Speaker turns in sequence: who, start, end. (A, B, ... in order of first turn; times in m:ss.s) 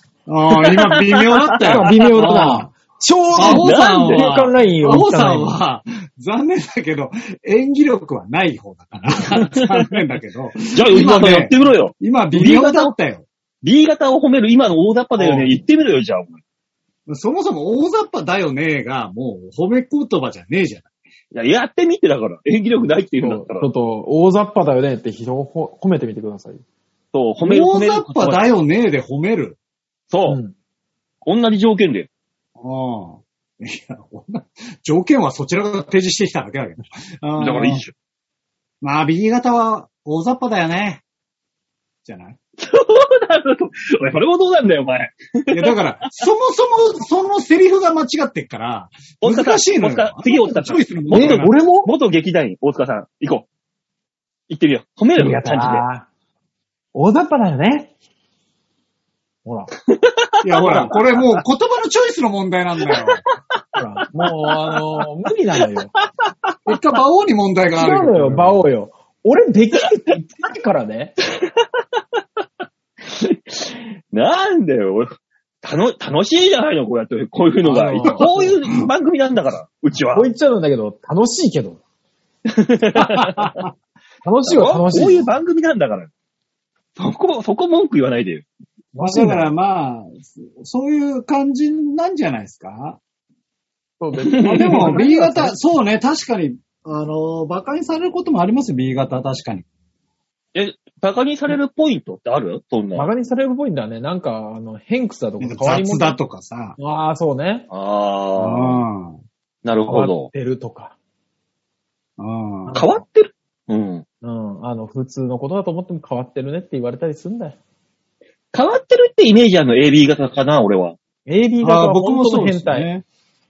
0:00.3-0:02.7 A
0:00.6-0:02.6 B
0:01.6-0:05.6 C
0:03.3-0:13.3 A
0:03.4-0:04.3 B
0:10.7-0:12.9 B
0:13.6-0:16.4 B
0:15.2-0:15.6 C
0:17.1-0:20.9 A
0:21.3-0:23.7 B
0:23.2-0:26.6 C
0:27.1-0:28.4 B
0:27.4-0:29.6 A
0:30.1-0:30.4 B
0:30.3-0:30.5 C
0:31.2-0:32.1 B
0:32.6-0:37.8 A
0:37.4-0:37.9 B
0:38.8-0:41.0 A
0:42.0-0:42.4 A
0:42.6-0:45.7 B
0:45.5-0:51.5 A
0:49.2-0:53.5 B
0:51.1-0:51.9 C
0:54.5-0:55.8 B
0:55.2-0:56.1 C
0:57.0-0:57.9 C
0:59.4-0:59.7 C
0:59.9-1:01.4 B
1:00.4-1:03.2 A
1:03.8-1:05.9 C
1:04.2-1:04.8 B
1:06.0-1:07.0 B
1:06.7-1:08.6 A
1:07.8-1:11.2 C
1:11.4-1:12.0 B
1:13.0-1:15.1 B
1:15.6-1:20.3 B
1:17.6-1:18.6 C
1:18.0-1:18.4 A
1:20.1-1:21.8 C
1:22.5-1:23.5 B
1:23.1-1:23.7 A
1:24.2-1:25.3 C
1:24.5-1:26.1 B
1:27.0-1:28.4 B
1:28.9-1:29.5 C
1:29.0-1:33.0 A
1:34.0-1:35.6 C
1:34.3-1:35.0 B
1:34.5-1:39.6 A
1:40.6-1:43.1 B
1:43.0-1:46.2 C
1:45.4-1:46.8 A
1:46.8-1:47.7 C
1:47.7-1:48.8 B
1:48.4-1:49.2 A
1:49.6-1:50.3 B
1:49.9-1:51.0 C
1:52.2-1:52.8 A
1:52.7-1:53.0 C
1:52.8-1:54.0 B
1:54.2-1:57.6 C
1:58.5-2:01.0 B
2:01.3-2:02.9 C
2:01.6-2:03.0 A